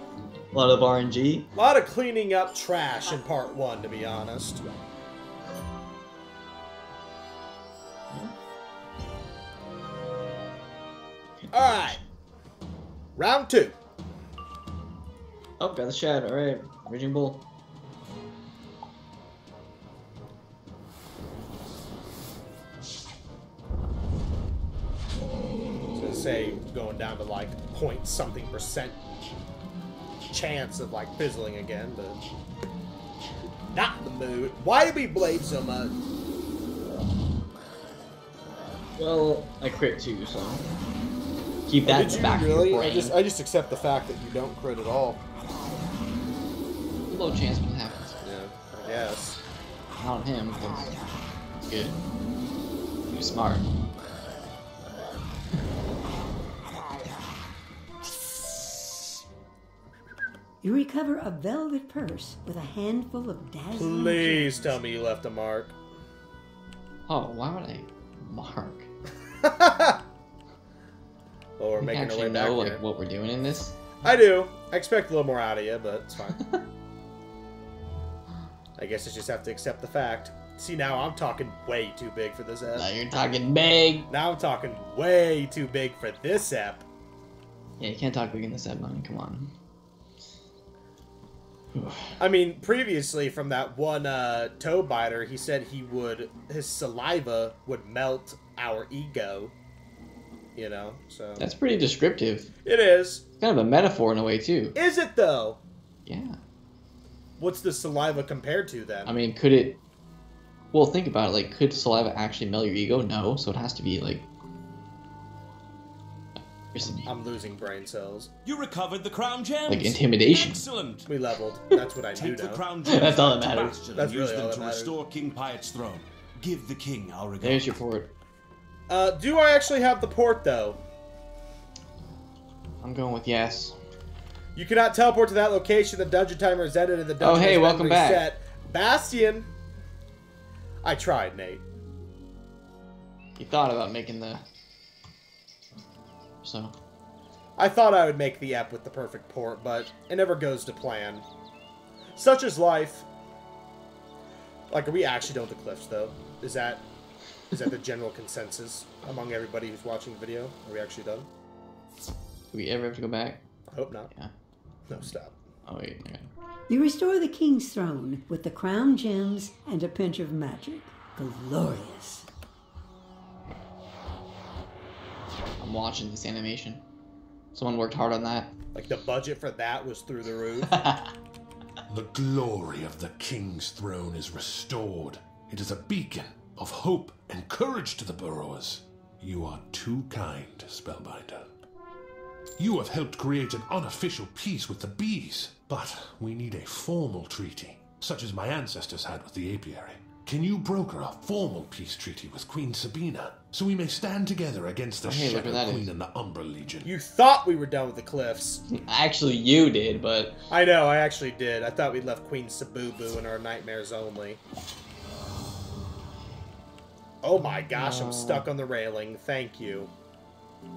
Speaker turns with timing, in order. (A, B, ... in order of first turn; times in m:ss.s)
0:00.5-0:01.5 A
0:01.6-0:04.6 B
0:11.4-0:11.9 A
0:11.5-0:12.0 B
0:13.2-0:13.8 B
0:15.6-0:17.4 A
0:25.9-0:29.0 B
0:30.3-0:32.2 B
0:33.7-0:35.9 B
0:39.0-0:40.6 A
0:41.7-0:43.2 A
0:41.8-0:45.2 B
0:47.1-0:48.2 A
0:48.2-0:49.4 B
0:50.0-0:51.0 A
0:51.6-0:52.0 A
0:53.1-0:53.7 A
1:00.6-1:04.8 C
1:03.7-1:05.8 B
1:07.1-1:08.9 A
1:09.4-1:10.0 B
1:11.6-1:12.8 B
1:11.8-1:13.8 A
1:14.0-1:16.4 B
1:18.8-1:22.9 B
1:22.8-1:24.1 A
1:24.1-1:26.9 B
1:27.8-1:29.5 A
1:31.7-1:32.1 A
1:32.2-1:39.5 B
1:40.6-1:41.4 B
1:41.4-1:42.5 A
1:42.6-1:43.2 B
1:43.4-1:44.8 A
1:44.8-1:45.6 B
1:46.1-1:46.4 A
1:47.4-1:49.1 B
1:49.1-1:49.8 A
1:50.7-1:54.3 A
1:56.7-1:57.1 A
1:57.1-1:58.3 B
1:58.4-2:01.1 D
1:59.7-2:00.6 A
2:01.1-2:02.6 B
2:02.1-2:07.8 D
2:02.9-2:03.8 A
2:03.9-2:04.9 B
2:07.4-2:08.1 A
2:08.9-2:10.8 B
2:12.8-2:13.8 A
2:14.6-2:19.5 B
2:17.2-2:18.3 A
2:20.8-2:21.6 B
2:23.4-2:24.4 A
2:26.4-2:26.7 A
2:27.6-2:31.3 B
2:32.2-2:33.1 B
2:34.7-2:36.8 B
2:37.5-2:41.3 B
2:42.5-2:43.4 A
2:43.7-2:44.1 B
2:44.9-2:45.4 B
2:45.7-2:46.3 A
2:46.7-2:52.3 C
2:55.6-2:56.8 A
2:57.5-2:58.5 A
2:58.7-3:00.8 B
3:00.7-3:01.1 A
3:01.9-3:11.5 E
3:12.6-3:26.9 E
3:25.0-3:25.9 A
3:26.8-3:28.6 B
3:28.7-3:30.4 A
3:30.5-3:34.4 B
3:37.2-3:39.9 B
3:37.7-3:38.5 A